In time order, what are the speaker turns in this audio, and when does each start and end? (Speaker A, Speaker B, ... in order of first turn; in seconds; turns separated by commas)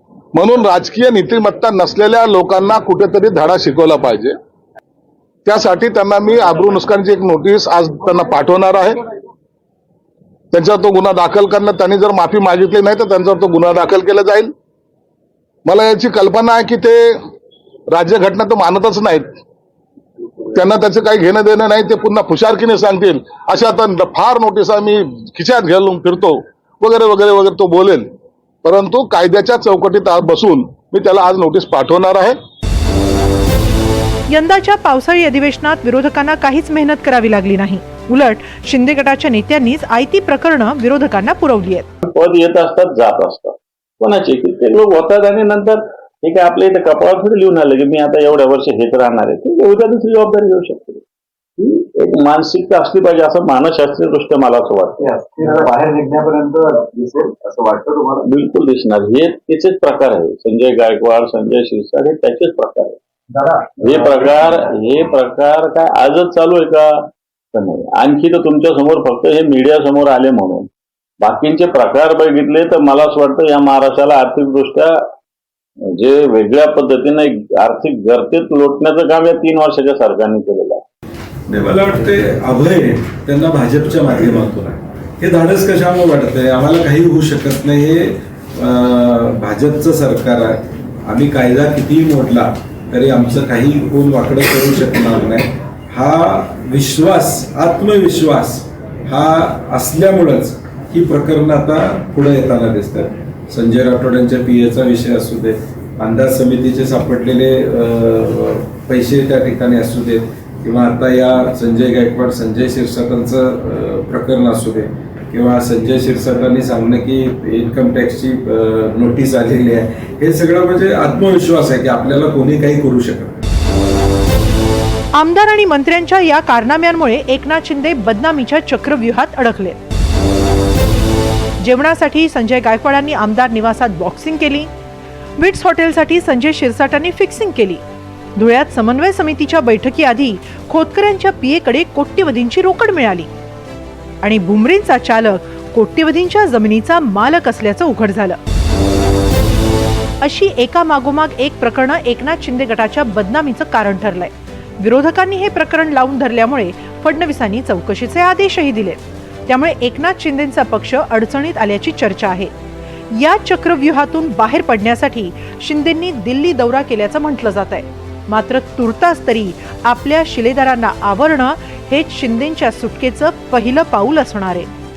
Speaker A: 0.3-4.3, Speaker A: 5.4-8.9, Speaker A: 10.5-14.5, Speaker A: 15.7-17.1, Speaker A: 17.9-19.2, Speaker A: 20.6-28.1, Speaker A: 28.6-32.4, Speaker B: 34.3-41.9, Speaker C: 42.0-51.0, Speaker C: 51.6-55.2, Speaker D: 55.0-58.2, Speaker C: 58.2-63.0, Speaker D: 63.4-64.1, Speaker C: 63.8-70.7, Speaker C: 71.2-74.9, Speaker C: 76.0-80.8, Speaker E: 81.5-123.4, Speaker B: 125.1-129.8, Speaker B: 131.6-134.7, Speaker B: 135.4-137.8, Speaker B: 138.3-143.3, Speaker B: 144.2-148.4, Speaker B: 150.2-162.5, Speaker B: 163.1-174.7